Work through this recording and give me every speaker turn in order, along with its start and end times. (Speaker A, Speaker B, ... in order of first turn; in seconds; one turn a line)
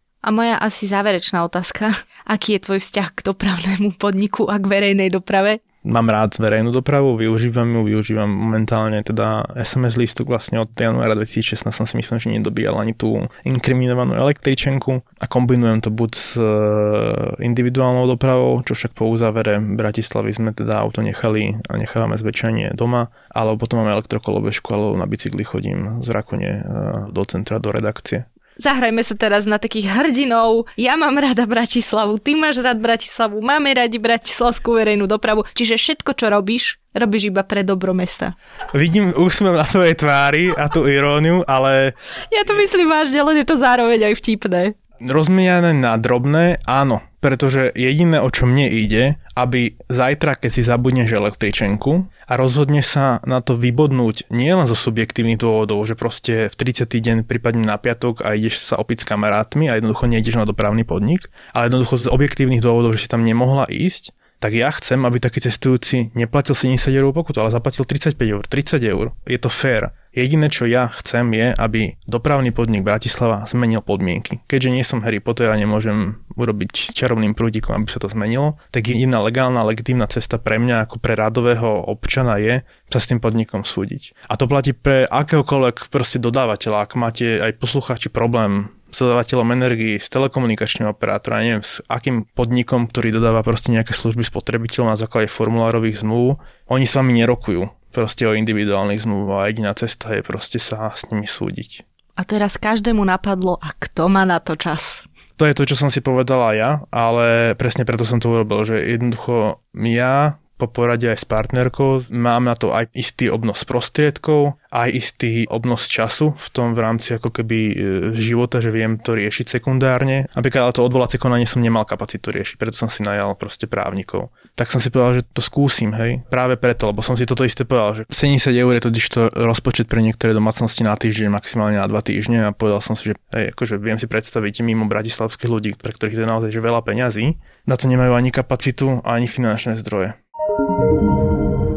Speaker A: 0.2-5.6
Speaker B: 5.8-28.2
Speaker A: 28.6-38.4
Speaker B: 38.7-42.0
Speaker A: 42.3-44.8
Speaker B: 45.0-101.8
Speaker A: 102.2-105.0
Speaker B: 105.4-140.2